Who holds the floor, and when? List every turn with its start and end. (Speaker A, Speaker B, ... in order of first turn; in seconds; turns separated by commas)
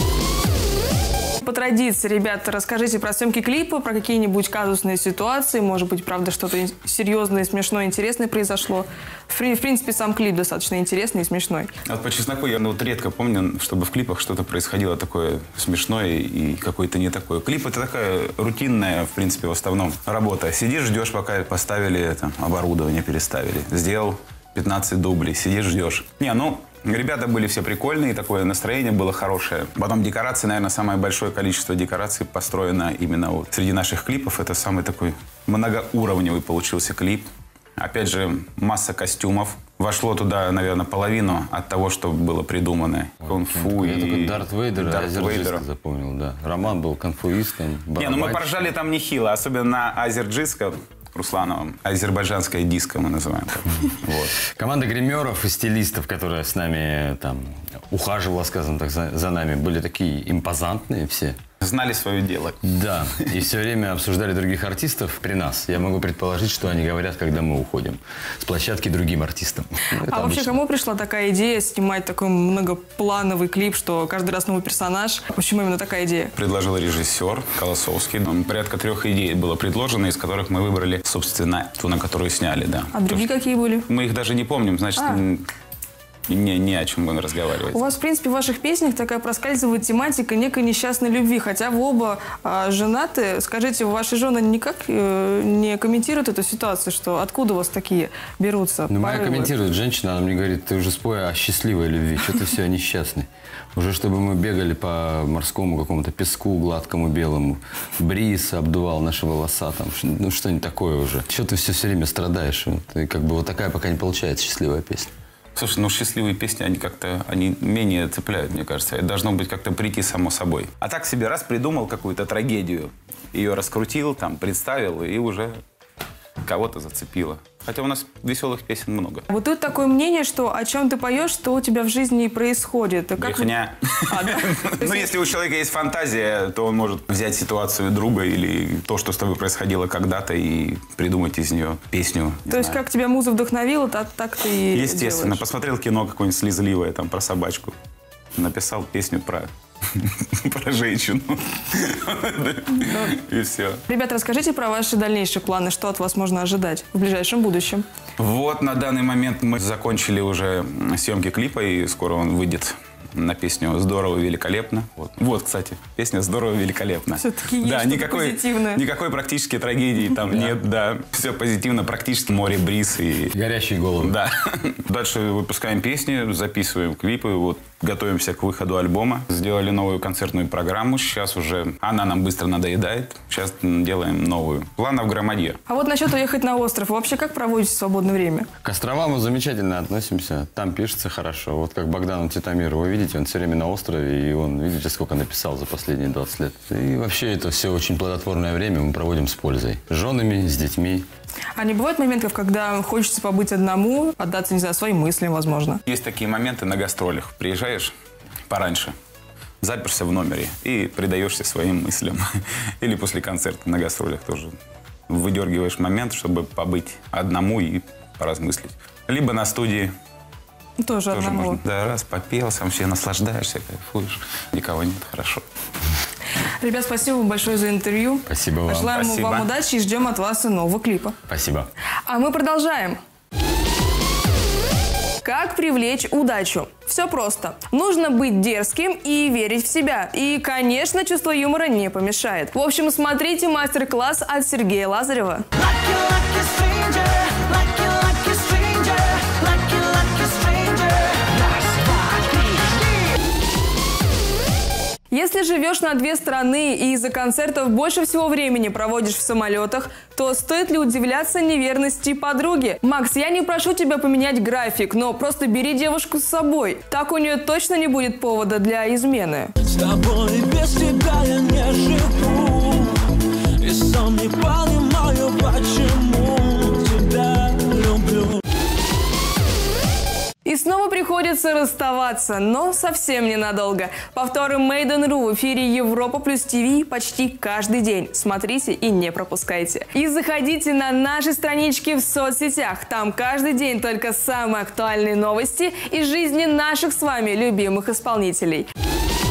Speaker A: 1.4-11.7, Speaker B: 11.8-45.6, Speaker C: 43.2-48.7, Speaker B: 48.0-54.4, Speaker C: 54.4-61.4, Speaker B: 61.6-62.7, Speaker C: 62.6-70.6, Speaker A: 70.0-76.3, Speaker B: 76.3-83.2, Speaker A: 82.9-83.8, Speaker B: 83.9-85.5, Speaker B: 86.3-87.8, Speaker A: 87.7-99.5, Speaker C: 98.9-115.1, Speaker B: 115.5-125.6, Speaker B: 126.4-129.3, Speaker A: 129.3-133.5, Speaker B: 133.2-142.8, Speaker A: 134.1-135.1, Speaker A: 142.5-145.4, Speaker B: 144.7-147.7, Speaker B: 148.3-153.8, Speaker A: 152.8-153.1, Speaker A: 153.9-157.8, Speaker B: 158.2-173.3, Speaker A: 167.2-168.8, Speaker C: 173.3-174.2, Speaker B: 174.0-185.6, Speaker A: 185.7-188.5, Speaker C: 188.6-201.1, Speaker A: 201.6-205.8, Speaker B: 205.8-207.9, Speaker B: 208.5-208.9, Speaker B: 209.6-212.3, Speaker B: 212.8-214.5, Speaker B: 215.1-219.9, Speaker A: 220.8-221.6, Speaker B: 221.1-225.4, Speaker A: 226.6-231.2, Speaker C: 228.2-228.9, Speaker B: 228.9-229.5, Speaker C: 231.3-231.7, Speaker A: 232.1-233.0, Speaker A: 235.2-245.7, Speaker D: 245.9-247.0, Speaker A: 247.4-251.0, Speaker D: 247.8-250.2, Speaker D: 251.1-251.9, Speaker A: 255.1-269.5, Speaker D: 269.6-278.4, Speaker A: 280.4-298.7